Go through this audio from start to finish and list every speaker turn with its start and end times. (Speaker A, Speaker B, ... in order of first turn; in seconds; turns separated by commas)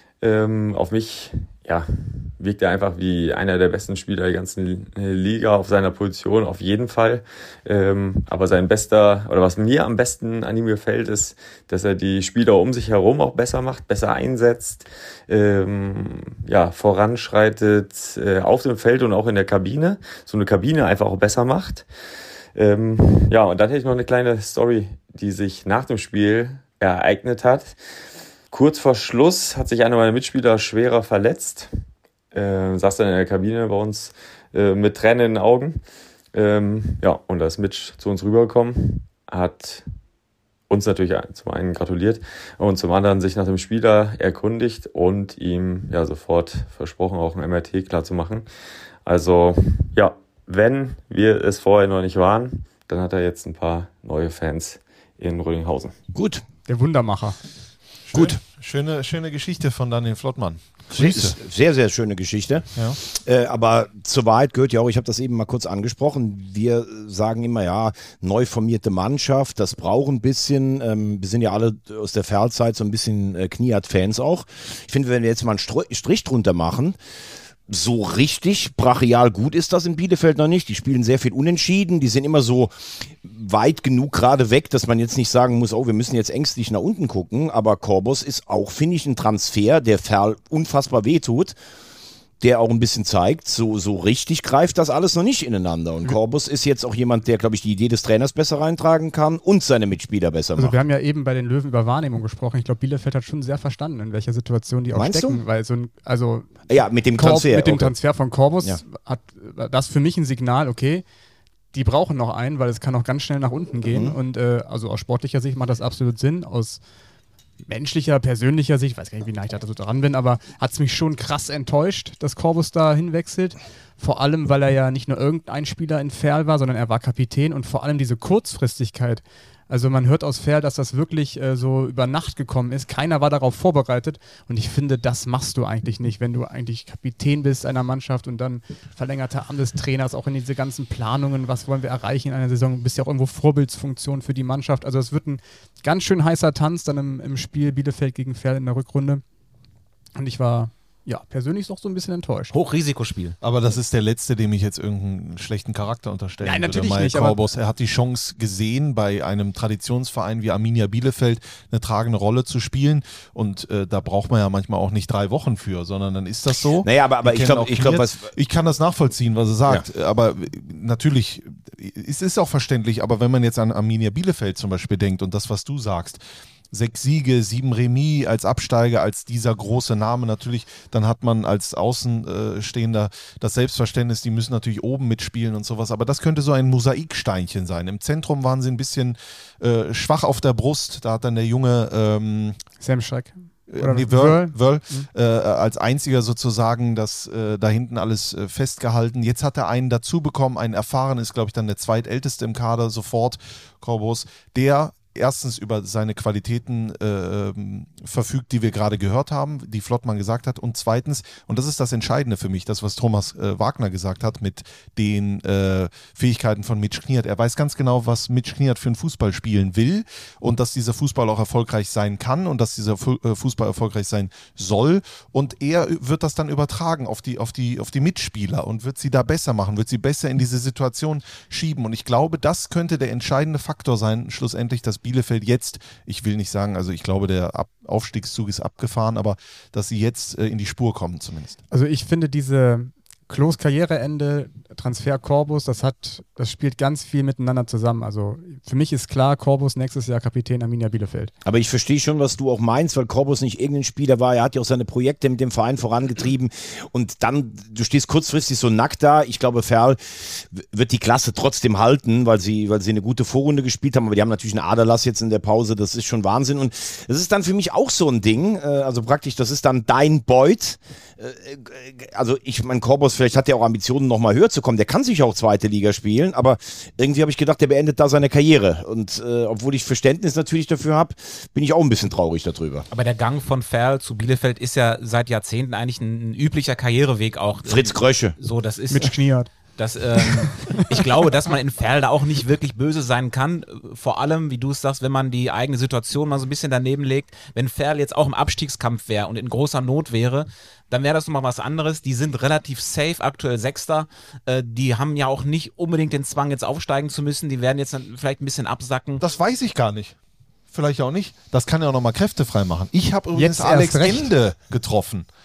Speaker A: 0.2-21.9, Speaker A: 22.5-27.8, Speaker A: 28.5-31.7, Speaker A: 32.3-35.8, Speaker A: 36.3-39.9, Speaker A: 40.7-48.5, Speaker A: 49.0-56.0, Speaker B: 56.1-56.4, Speaker C: 56.7-57.4, Speaker D: 58.1-61.4, Speaker B: 60.9-77.0, Speaker B: 77.7-91.5, Speaker B: 92.4-100.8, Speaker C: 100.6-106.5, Speaker B: 104.9-105.4, Speaker B: 106.7-108.0, Speaker C: 107.1-111.0, Speaker C: 111.7-116.8, Speaker B: 113.8-114.2, Speaker C: 117.7-149.2, Speaker C: 150.2-152.5, Speaker E: 152.5-153.3, Speaker D: 153.4-192.6, Speaker C: 156.4-157.4, Speaker B: 166.8-168.3, Speaker C: 192.8-195.1, Speaker D: 193.7-241.6, Speaker C: 241.7-251.3, Speaker B: 251.4-282.9, Speaker E: 282.9-309.2, Speaker B: 287.6-288.4, Speaker C: 288.9-289.5, Speaker D: 309.2-310.2, Speaker D: 310.7-315.3, Speaker C: 313.3-314.3